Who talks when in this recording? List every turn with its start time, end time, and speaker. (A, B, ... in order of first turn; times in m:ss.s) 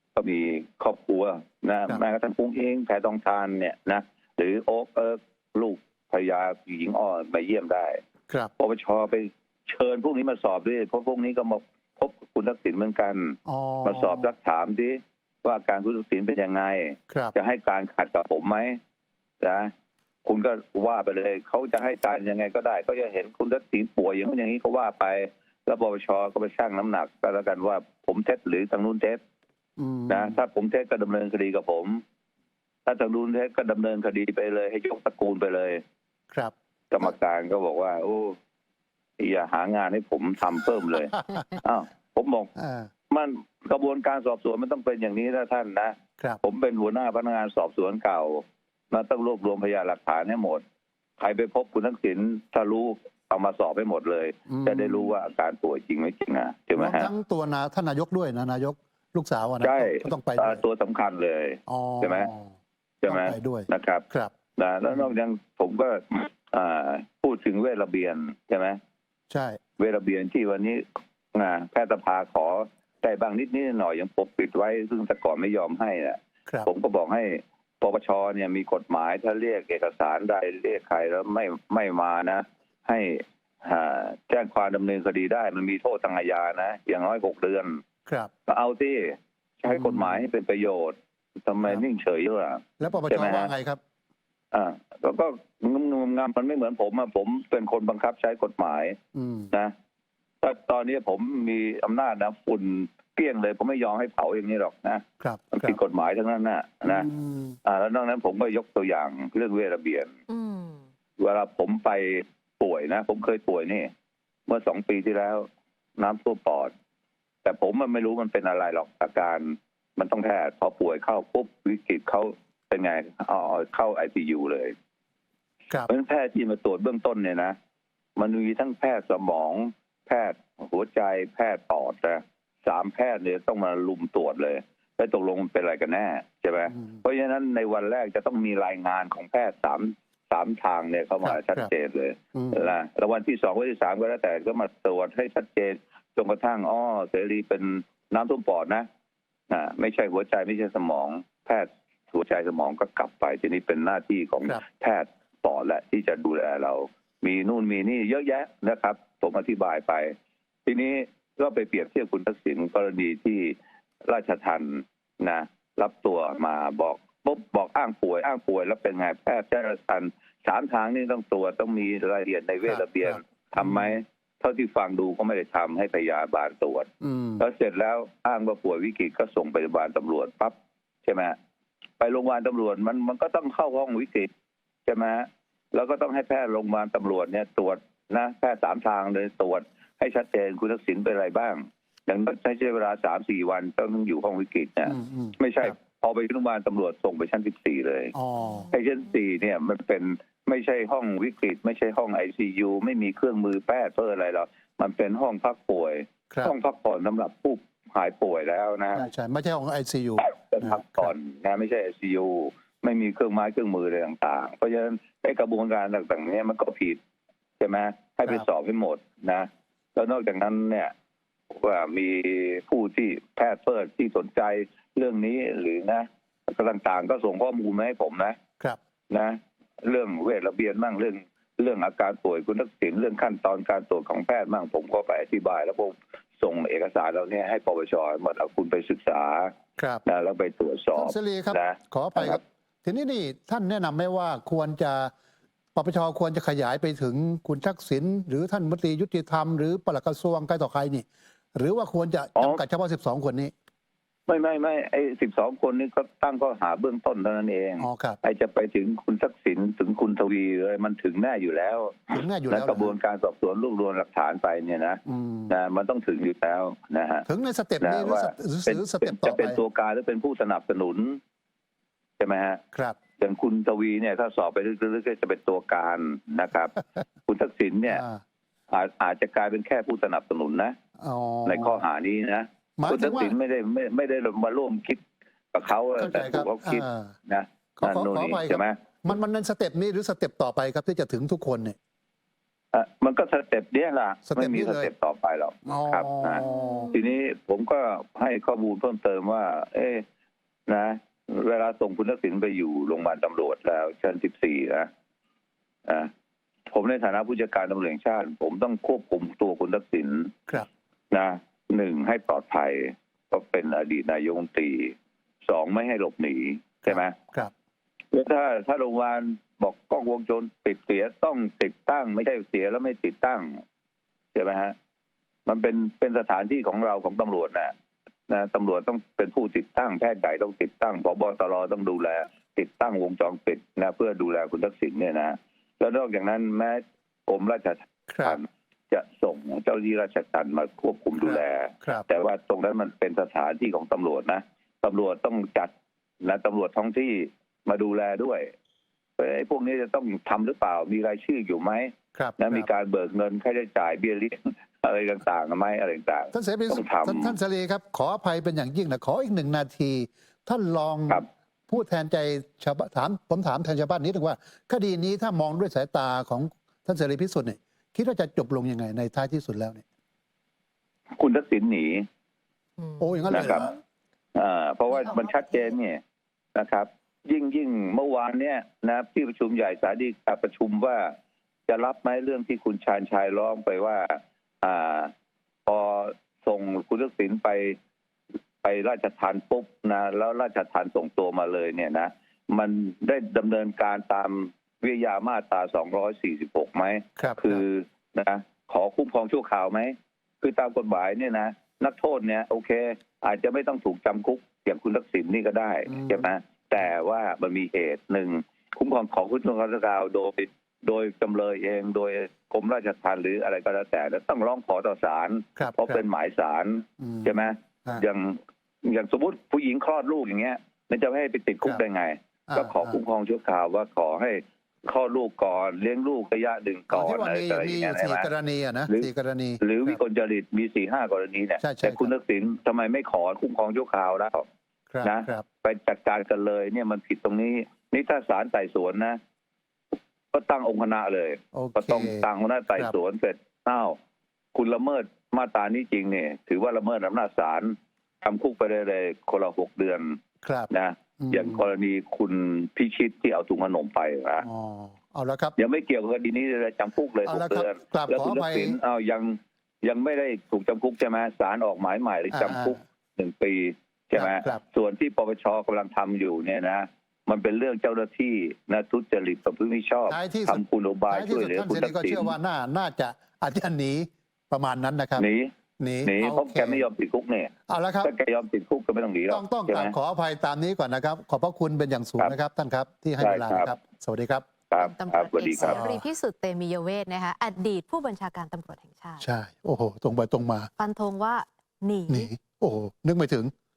0:00.1-0:08.0 A
0:08.6-0:18.8 A
0:13.4-0:14.3 B
0:17.1-0:17.3 B
0:19.4-0:19.7 A
0:20.2-0:29.2 A
0:29.8-0:30.4 B
0:30.1-0:32.0 A
0:32.8-0:35.8 A
0:36.9-0:38.4 A
0:39.2-0:42.5 A
0:42.6-0:42.9 B
0:43.1-0:50.6 A
0:51.2-0:57.1 A
0:54.5-0:55.1 B
0:56.8-1:00.6 B
0:59.6-1:02.3 A
1:01.7-1:02.5 B
1:03.0-1:08.8 A
1:03.0-1:04.3 B
1:09.3-1:09.6 B
1:09.8-1:27.8 A
1:28.4-1:33.5 A
1:29.7-1:30.2 B
1:32.8-1:33.8 B
1:34.5-1:39.0 A
1:39.1-1:39.5 B
1:40.4-1:47.1 A
1:45.2-1:45.8 B
1:46.8-1:47.6 B
1:47.6-1:50.2 A
1:50.3-1:50.8 C
1:51.2-1:53.9 A
1:54.5-1:56.7 A
1:57.4-2:04.7 A
2:05.9-2:07.6 A
2:08.2-2:28.9 A
2:21.2-2:21.7 B
2:22.3-2:22.7 B
2:29.5-3:01.4 A
2:52.6-2:53.9 B
2:57.0-2:57.4 B
3:02.0-3:04.3 A
3:04.8-3:18.1 A
3:14.8-3:15.7 B
3:18.1-3:18.7 B
3:18.7-3:29.0 A
3:28.9-3:31.1 B
3:30.2-3:37.0 A
3:37.6-3:40.9 A
3:41.5-3:48.4 A
3:49.1-4:02.4 A
3:59.8-4:00.0 B
4:00.9-4:05.1 B
4:05.7-4:13.5 B
4:12.4-4:12.6 A
4:14.3-4:27.2 A
4:17.8-4:18.2 B
4:22.1-4:22.9 B
4:25.0-4:25.5 B
4:27.2-4:29.6 B
4:27.8-4:31.2 A
4:32.2-4:32.6 A
4:33.2-4:36.8 A
4:37.3-4:38.0 A
4:37.9-4:38.2 B
4:38.7-4:40.8 A
4:41.0-4:41.8 B
4:41.4-4:48.8 A
4:42.8-4:43.3 B
4:46.0-4:47.1 B
4:47.8-4:51.8 B
4:52.7-5:00.0 A
4:54.3-4:54.9 B
4:55.6-4:57.0 B
4:56.4-4:56.9 C
5:00.7-5:04.9 A
5:05.8-5:06.1 A
5:06.7-5:10.3 A
5:11.1-5:14.9 A
5:15.4-5:17.2 A
5:16.9-5:17.5 B
5:18.1-5:23.6 A
5:24.3-5:24.7 A
5:25.4-5:27.7 A
5:28.3-5:45.7 A
5:38.1-5:38.4 B
5:41.2-5:42.0 B
5:46.2-5:48.5 A
5:49.2-5:57.4 A
5:52.1-5:52.7 B
5:56.3-6:09.8 B
6:11.2-6:12.0 A
6:12.8-6:13.6 C
6:13.0-6:13.7 B
6:13.3-6:13.7 A
6:14.3-6:16.0 A
6:16.5-6:21.1 A
6:21.7-6:25.1 A
6:25.6-6:27.8 A
6:28.6-7:08.3 A
6:37.2-6:37.6 B
6:45.9-6:46.2 B
6:55.6-6:56.0 B
6:57.0-6:58.0 B
7:02.5-7:03.0 B
7:06.9-7:10.0 B
7:09.6-7:14.5 A
7:11.6-7:12.1 B
7:14.9-7:15.4 B
7:15.0-7:19.2 A
7:20.3-7:24.0 A
7:21.5-7:22.9 B
7:24.5-7:34.4 A
7:30.4-7:31.6 B
7:34.4-7:35.5 B
7:35.6-7:52.3 A
7:37.2-7:38.8 B
7:42.3-7:42.8 B
7:44.1-7:44.6 B
7:50.1-7:55.3 B
7:55.2-7:55.5 A
7:55.8-7:56.8 B
7:56.0-7:59.9 A
7:57.7-7:58.1 B
7:59.3-8:04.5 B
8:03.2-8:03.7 A
8:04.7-8:05.8 A
8:04.8-8:09.2 C
8:05.6-8:06.1 B
8:09.2-8:10.7 B
8:10.8-8:12.3 C
8:12.1-8:13.5 B